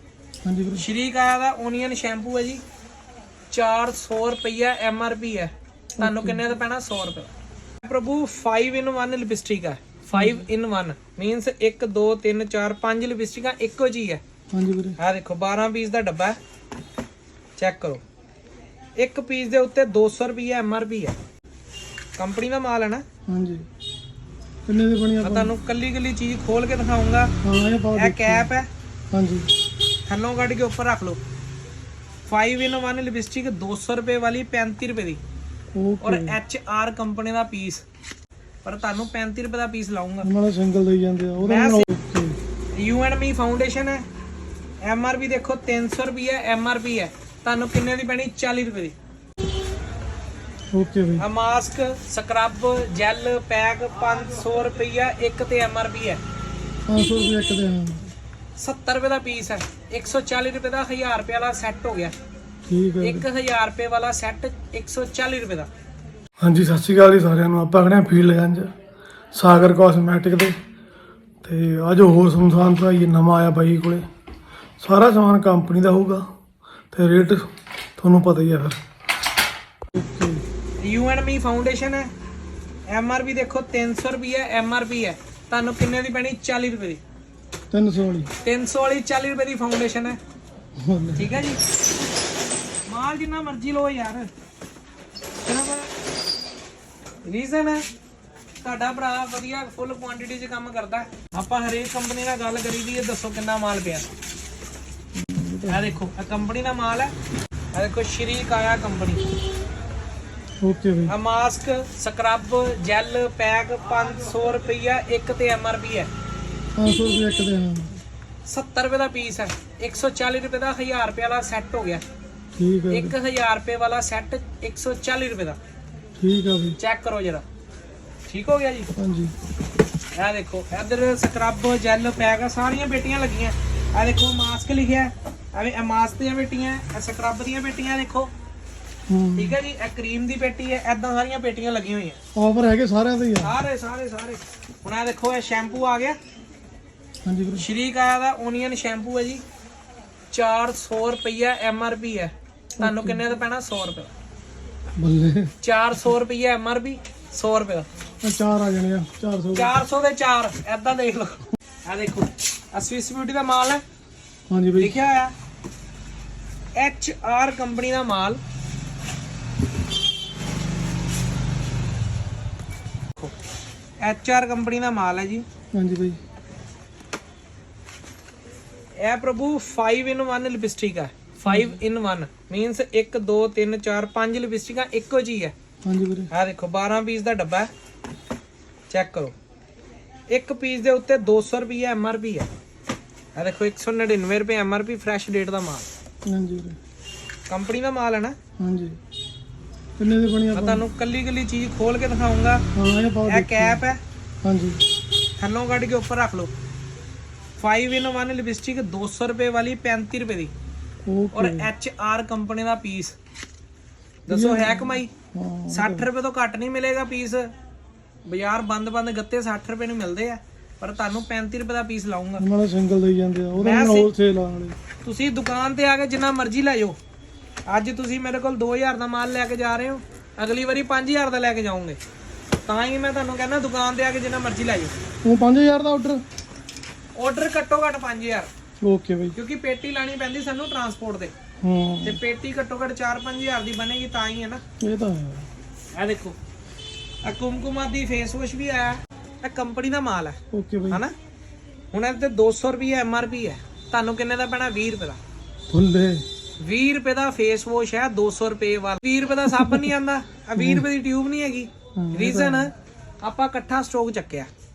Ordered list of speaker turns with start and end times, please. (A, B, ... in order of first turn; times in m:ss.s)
0:00.4-0:00.8 A
0:00.7-0:02.6 B
0:03.5-0:07.3 B
0:06.0-0:06.4 A
0:07.8-0:14.2 B
0:10.2-0:10.5 A
0:14.5-0:15.0 A
0:15.0-0:16.4 B
0:17.6-0:18.0 B
0:19.0-0:21.2 B
0:22.2-0:23.0 B
0:23.3-0:23.7 A
0:24.7-0:25.5 A
0:25.2-0:27.3 B
0:27.4-0:28.5 A
0:28.0-0:28.7 B
0:29.1-0:29.5 A
0:30.1-0:31.2 B
0:32.3-0:35.2 B
0:35.7-0:36.4 A
0:36.0-0:37.8 B
0:38.6-0:40.3 B
0:40.2-0:42.4 A
0:41.4-0:41.9 B
0:42.8-0:44.0 B
0:44.8-0:49.0 B
0:50.7-0:51.3 A
0:51.2-0:56.2 B
0:56.9-0:58.1 A
0:58.6-1:02.1 B
1:02.7-1:03.3 A
1:03.0-1:05.7 B
1:06.4-1:08.7 A
1:09.3-1:10.6 A
1:11.4-1:14.1 A
1:14.8-1:16.3 A
1:16.9-1:18.8 A
1:19.9-1:20.4 A
1:20.8-1:22.1 B
1:22.9-1:27.0 B
1:27.7-1:28.3 A
1:28.4-1:30.2 B
1:30.8-1:31.4 A
1:31.2-1:31.6 B
1:32.9-1:34.3 B
1:35.4-1:35.9 B
1:37.2-1:37.8 B
1:38.6-1:44.1 B
1:45.2-1:45.9 A
1:45.7-1:47.1 B
1:47.7-1:49.2 B
1:50.6-1:51.2 A
1:51.1-1:56.1 B
1:56.8-1:58.0 A
1:58.5-2:02.0 B
2:02.6-2:03.2 A
2:02.9-2:05.6 B
2:06.2-2:06.8 A
2:06.8-2:07.4 B
2:08.3-2:08.9 B
2:09.0-2:09.3 A
2:10.2-2:18.3 B
2:19.1-2:19.6 A
2:19.4-2:22.2 B
2:22.4-2:23.6 A
2:23.4-2:26.2 B
2:27.2-2:27.7 A
2:27.6-2:29.4 B
2:30.3-2:34.1 B
2:32.8-2:33.2 A
2:35.0-2:35.5 A
2:35.6-2:37.9 B
2:38.2-2:39.8 A
2:39.6-2:43.8 B
2:44.5-2:45.0 A
2:44.8-2:45.3 B
2:46.8-2:48.4 B
2:54.0-2:55.4 B
2:55.7-2:56.2 A
2:59.0-3:05.5 B
3:01.5-3:01.8 A
3:05.8-3:06.3 A
3:06.3-3:07.7 B
3:08.9-3:09.3 B
3:10.3-3:12.5 B
3:13.4-3:15.9 B
3:16.3-3:16.8 A
3:17.5-3:18.4 B
3:18.6-3:19.0 A
3:20.0-3:20.8 A
3:20.5-3:22.6 B
3:22.8-3:23.8 A
3:23.3-3:24.0 B
3:24.4-3:24.8 A
3:25.4-3:26.5 B
3:27.6-3:30.5 B
3:31.1-3:31.7 A
3:31.3-3:33.2 B
3:34.3-3:35.1 B
3:34.3-3:36.1 A
3:35.7-3:37.5 B
3:38.3-3:42.4 B
3:42.4-3:44.8 A
3:43.6-3:44.1 B
3:45.0-3:47.0 B
3:47.7-3:52.0 B
3:52.7-3:55.0 B
3:55.2-3:56.2 A
3:57.2-3:58.5 B
3:58.8-3:59.4 A
3:59.3-4:01.3 B
4:01.6-4:02.2 A
4:02.0-4:04.6 B
4:04.8-4:05.5 A
4:06.0-4:06.4 B
4:07.2-4:10.4 B
4:10.5-4:11.0 A
4:11.9-4:15.2 B
4:15.7-4:16.2 A
4:16.6-4:24.5 B
4:19.5-4:19.9 A
4:20.6-4:20.9 A
4:22.0-4:22.7 A